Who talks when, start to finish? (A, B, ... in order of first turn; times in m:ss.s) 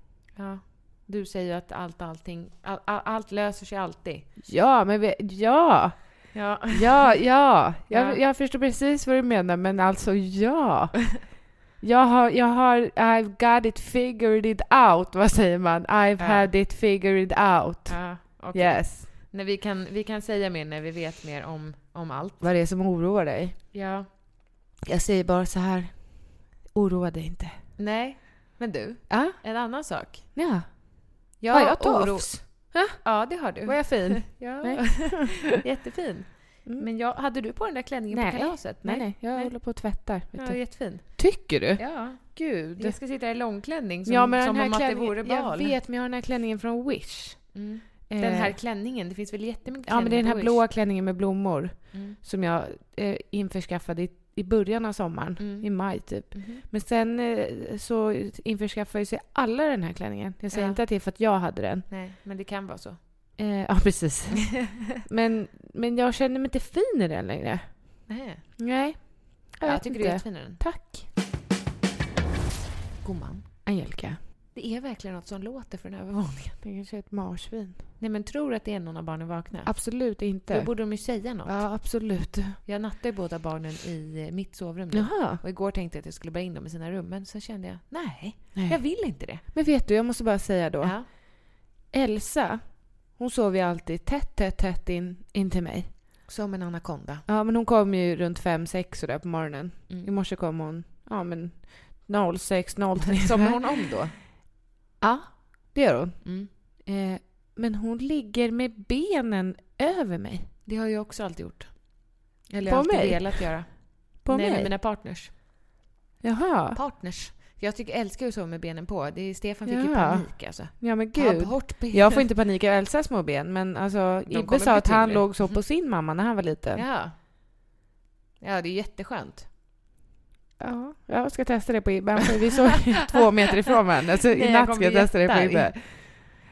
0:00.3-0:04.3 A
0:04.4-0:19.1 B
0:06.3-0:07.2 A
0:07.9-0:08.2 A
0:16.2-0:16.5 A
0:17.9-0:22.4 A
0:22.4-0:23.6 B
0:23.7-0:24.1 A
0:24.8-0:27.6 B
0:27.8-0:30.4 A
0:29.1-0:29.4 B
0:30.3-0:35.5 B
0:31.4-0:45.7 A
0:38.1-0:43.0 B
0:44.1-0:48.6 B
0:47.5-0:50.6 A
0:49.8-1:01.9 B
0:51.9-0:52.2 A
0:55.4-0:56.6 A
1:00.5-1:00.8 A
1:01.9-1:03.0 A
1:03.4-1:08.0 B
1:04.6-1:05.0 A
1:08.1-1:08.6 A
1:08.6-1:11.1 B
1:09.6-1:10.6 A
1:13.0-1:13.5 A
1:13.6-1:14.2 B
1:14.5-1:16.6 A
1:16.6-1:17.8 B
1:18.0-1:21.8 A
1:19.6-1:22.6 B
1:22.6-1:29.4 A
1:24.9-1:25.4 B
1:28.5-1:35.9 B
1:30.8-1:31.1 A
1:36.3-1:37.2 A
1:37.3-1:43.6 B
1:43.0-1:44.1 A
1:45.0-1:50.5 B
1:46.2-1:46.5 A
1:50.6-1:55.3 A
1:52.6-1:54.7 B
1:56.2-1:56.8 B
1:56.7-2:02.2 A
1:59.6-2:06.8 B
2:04.3-2:05.6 A
2:06.7-2:07.2 A
2:08.4-2:09.5 A
2:10.6-2:16.0 B
2:14.3-2:16.1 A